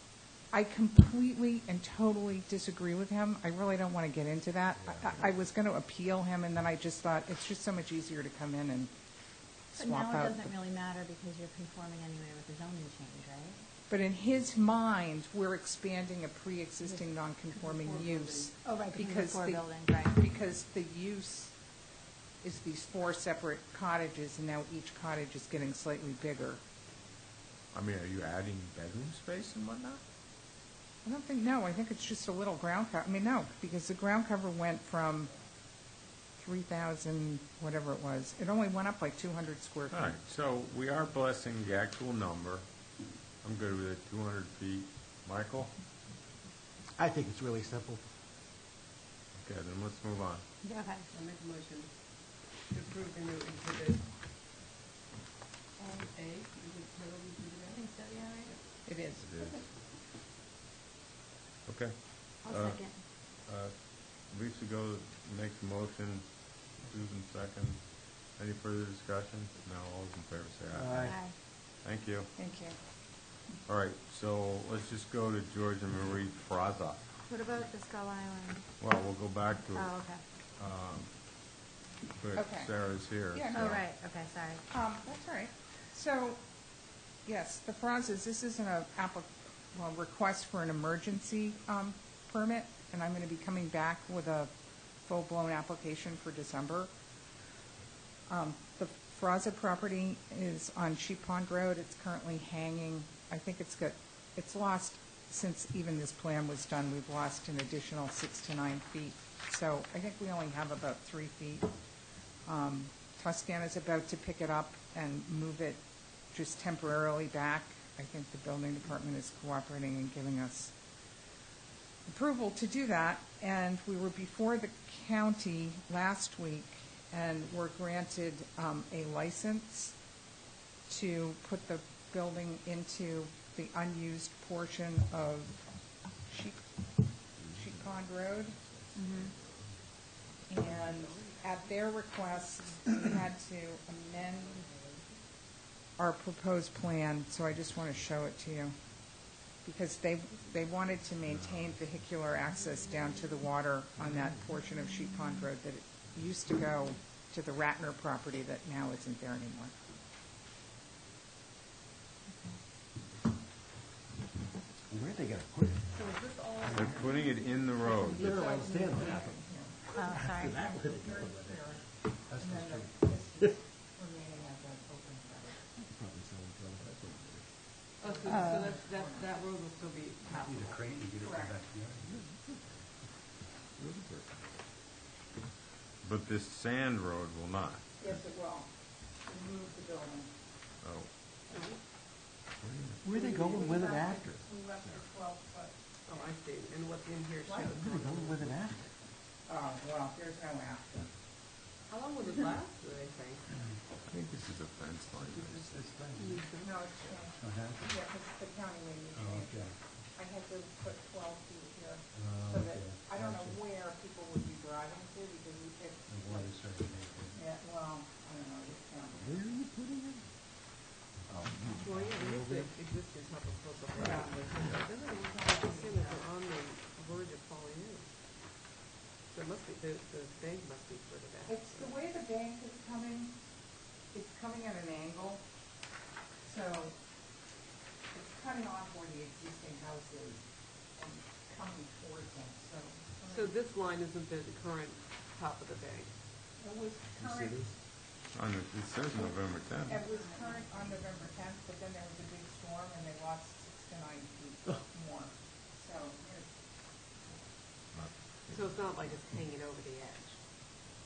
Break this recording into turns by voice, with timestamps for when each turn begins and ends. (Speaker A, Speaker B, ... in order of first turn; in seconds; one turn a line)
Speaker A: 0.5-8.9
Speaker A: 9.7-10.5
Speaker B: 9.7-13.6
Speaker A: 13.9-21.5
Speaker C: 17.5-18.5
Speaker B: 18.6-20.3
Speaker A: 22.4-26.6
Speaker D: 27.7-30.0
Speaker A: 31.0-35.3
Speaker A: 36.4-40.2
Speaker D: 39.9-42.7
Speaker D: 43.4-45.7
Speaker E: 47.0-48.0
Speaker D: 49.3-50.5
Speaker B: 50.6-51.1
Speaker C: 51.1-54.1
Speaker C: 55.9-58.6
Speaker B: 57.7-58.6
Speaker A: 58.9-59.6
Speaker D: 59.2-59.6
Speaker D: 61.7-71.2
Speaker B: 62.4-63.0
Speaker E: 70.7-71.2
Speaker B: 71.0-71.3
Speaker D: 71.8-72.3
Speaker A: 72.4-72.8
Speaker D: 73.7-77.1
Speaker B: 77.3-78.7
Speaker D: 78.8-81.2
Speaker B: 79.7-80.2
Speaker D: 82.1-83.8
Speaker A: 82.4-82.7
Speaker A: 83.3-83.8
Speaker B: 83.5-84.6
Speaker A: 84.7-86.4
Speaker A: 87.3-94.5
Speaker A: 95.0-96.9
Speaker A: 98.3-111.7
Speaker A: 112.5-115.8
Speaker A: 116.3-120.7
Speaker A: 122.1-130.0
Speaker A: 130.9-135.7
Speaker A: 136.2-136.7
Speaker A: 137.4-138.6
Speaker B: 138.9-139.3
Speaker D: 139.1-139.6
Speaker A: 140.5-144.6
Speaker C: 140.6-142.8
Speaker C: 144.2-145.2
Speaker A: 146.0-148.8
Speaker A: 149.6-159.8
Speaker E: 164.9-166.0
Speaker C: 165.9-169.3
Speaker E: 166.7-166.9
Speaker D: 166.7-168.4
Speaker E: 167.9-171.7
Speaker A: 169.0-169.8
Speaker B: 169.8-170.9
Speaker A: 170.7-175.6
Speaker F: 172.3-173.0
Speaker E: 175.9-177.5
Speaker C: 178.0-180.9
Speaker A: 178.0-179.3
Speaker B: 178.3-178.7
Speaker F: 180.3-182.2
Speaker A: 181.3-181.5
Speaker E: 183.8-184.5
Speaker D: 186.0-188.2
Speaker A: 188.0-188.7
Speaker A: 189.2-190.3
Speaker D: 190.8-191.1
Speaker C: 191.5-191.8
Speaker D: 192.6-193.0
Speaker E: 193.0-194.8
Speaker C: 193.3-193.8
Speaker A: 193.4-195.7
Speaker C: 196.1-198.4
Speaker E: 197.7-198.9
Speaker A: 199.5-201.1
Speaker C: 201.9-203.6
Speaker D: 204.1-205.7
Speaker F: 205.2-206.5
Speaker C: 206.2-206.9
Speaker A: 206.6-209.6
Speaker F: 207.2-208.0
Speaker F: 209.2-209.8
Speaker A: 210.2-216.5
Speaker F: 212.1-213.6
Speaker F: 216.1-217.4
Speaker A: 217.3-219.4
Speaker E: 219.2-220.3
Speaker E: 221.3-222.7
Speaker C: 221.8-228.2
Speaker A: 224.0-224.7
Speaker A: 225.3-226.2
Speaker C: 229.3-232.0
Speaker A: 231.5-233.4
Speaker A: 234.1-235.4
Speaker A: 236.4-237.0
Speaker A: 238.1-243.5
Speaker C: 243.2-246.2
Speaker A: 246.6-247.6
Speaker E: 247.2-247.8
Speaker D: 248.3-250.0
Speaker A: 249.9-256.5
Speaker B: 250.1-250.5
Speaker D: 257.9-258.9
Speaker C: 258.5-260.4